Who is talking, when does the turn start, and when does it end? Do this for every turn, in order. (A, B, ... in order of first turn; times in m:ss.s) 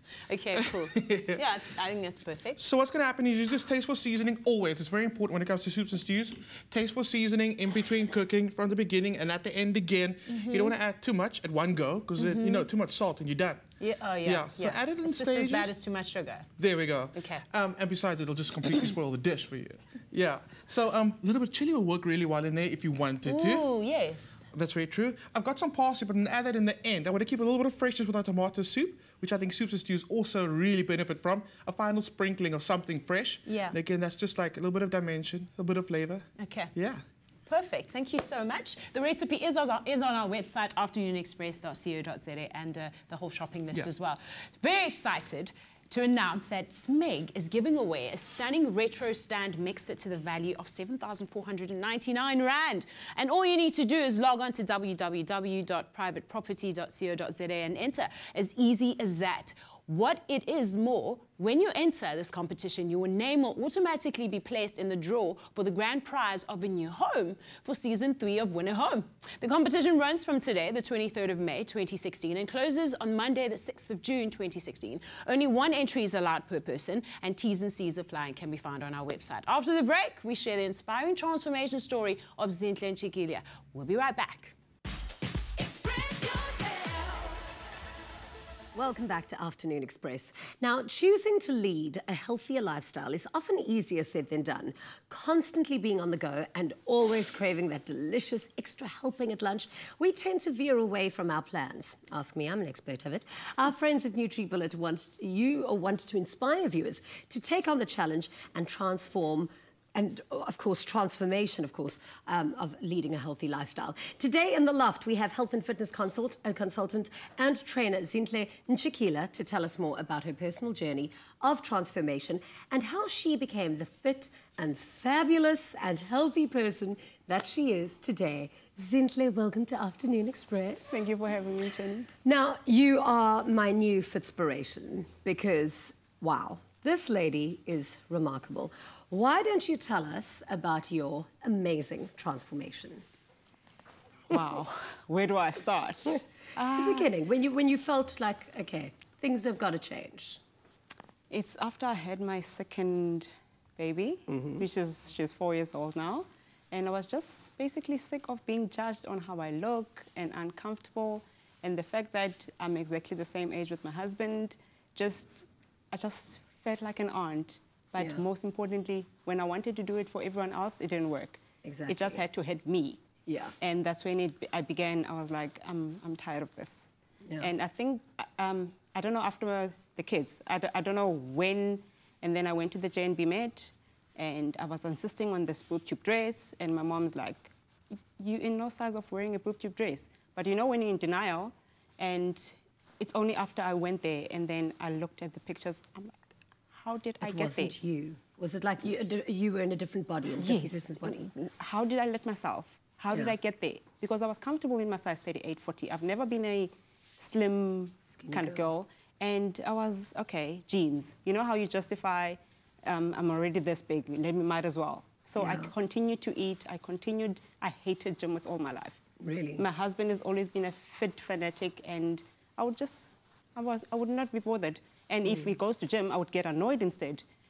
0:00.3-0:02.6 A
0:00.6-0:01.4 B
0:02.6-0:13.6 B
0:10.3-0:10.7 A
0:12.2-0:12.7 A
0:13.8-0:16.5 A
0:14.2-0:15.7 B
0:16.6-0:23.6 B
0:17.1-0:17.4 A
0:23.2-0:24.5 A
0:24.5-0:37.0 B
0:33.4-0:33.8 A
0:36.4-0:36.7 A
0:37.5-1:24.5 A
1:28.7-2:11.1 C
2:10.8-2:12.1 D
2:12.2-2:23.0 C
2:24.3-2:27.1 D
2:26.8-2:30.4 C
2:31.3-2:53.1 D
2:34.3-2:34.6 C
2:48.0-2:48.2 C
2:51.6-2:52.2 C
2:53.2-2:53.5 C
2:53.6-3:16.2 D
3:16.7-3:17.8 D
3:17.2-3:21.3 C
3:20.3-3:39.0 D
3:28.2-3:28.6 C
3:35.4-3:35.7 C
3:39.2-3:39.6 C
3:39.6-3:47.2 D
3:45.2-3:45.5 C